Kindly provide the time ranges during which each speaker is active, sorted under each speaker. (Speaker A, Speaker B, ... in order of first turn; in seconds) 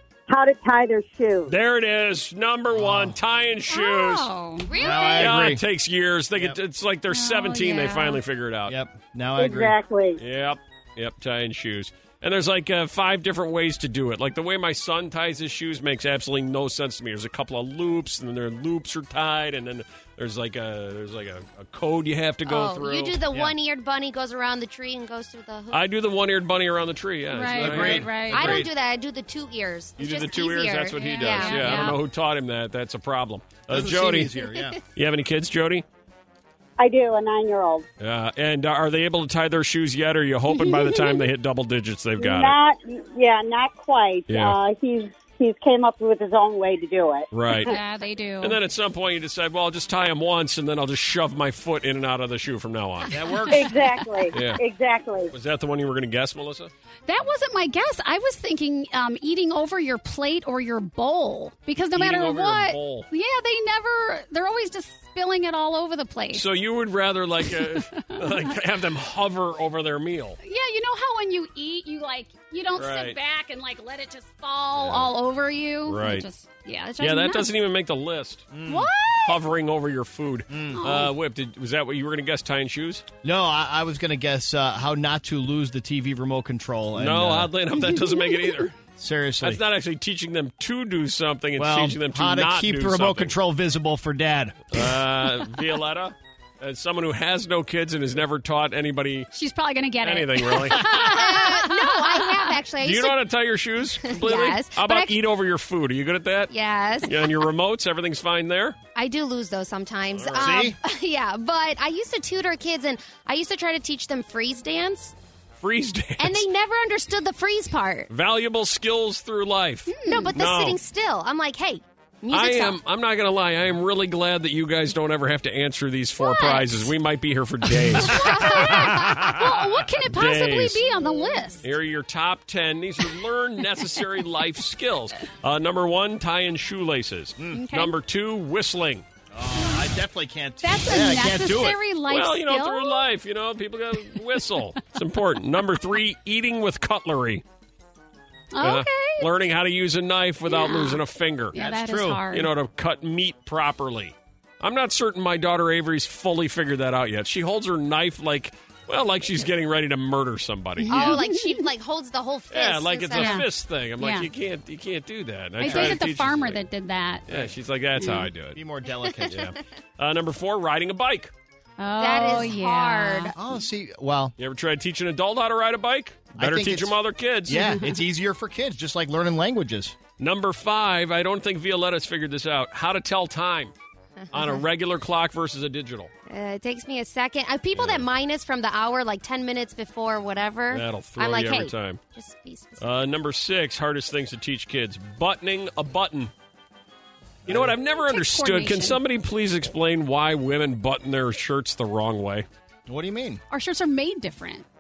Speaker A: 0.3-1.6, 9.4-10.2, 36.8-37.9, 42.2-47.7, 53.5-55.3
Speaker B: 1.5-4.3, 5.2-8.8, 10.2-23.2, 25.7-28.7, 30.0-34.3, 35.0-35.9, 38.0-42.6, 44.3-44.6, 47.3-47.8, 48.4-53.2, 54.3-54.6, 55.3-56.7, 61.9-63.1, 66.3-70.4, 72.8-73.2, 74.8-75.1, 75.9-76.3, 77.0-78.5, 79.2-83.1, 87.0-88.7, 89.4-93.3, 94.7-99.3, 100.0-100.9, 102.8-106.5, 107.0-108.8, 110.1-110.6, 115.6-116.5, 118.1-120.8, 122.3-130.9, 131.6-139.1, 142.1-147.4, 148.6-151.5, 152.3-161.1, 162.5-166.6, 167.3-168.6, 169.3-171.3, 174.4-177.6, 180.2-183.7, 184.3-186.1, 187.7-188.1, 190.7-192.0, 192.8-196.3, 197.5-202.5
Speaker C: 2.7-3.2, 4.8-5.6, 8.7-9.8, 27.5-28.7, 33.7-34.8, 53.1-53.8, 78.5-78.9, 80.5-80.8, 83.2-87.5, 89.0-89.6, 91.6-95.0, 110.3-110.8, 137.4-137.6, 139.3-141.8, 151.5-152.2, 168.5-169.5, 173.4-174.3, 176.4-180.0, 197.5-197.8, 202.9-203.4
Speaker D: 3.7-5.2, 7.1-8.2, 27.3-28.6, 31.0-32.0, 47.6-48.6, 57.1-66.5, 70.4-77.5, 78.7-79.4, 80.8-81.1, 99.3-102.6, 119.9-120.3, 126.2-126.9, 128.0-131.7, 137.5-137.9, 140.6-143.1, 148.5-149.3, 150.5-151.0, 151.5-152.5, 160.8-161.7, 163.1-163.5, 164.0-164.3, 165.6-167.2, 171.8-173.4, 177.6-177.9, 197.9-199.0, 203.5-204.7
Speaker E: 4.7-5.4, 22.5-25.8, 28.3-32.0, 100.8-103.2, 104.0-105.2, 106.5-107.3, 109.0-115.2, 116.2-118.1, 120.0-122.8, 160.9-163.4, 172.0-173.4, 184.3-184.6, 186.3-192.9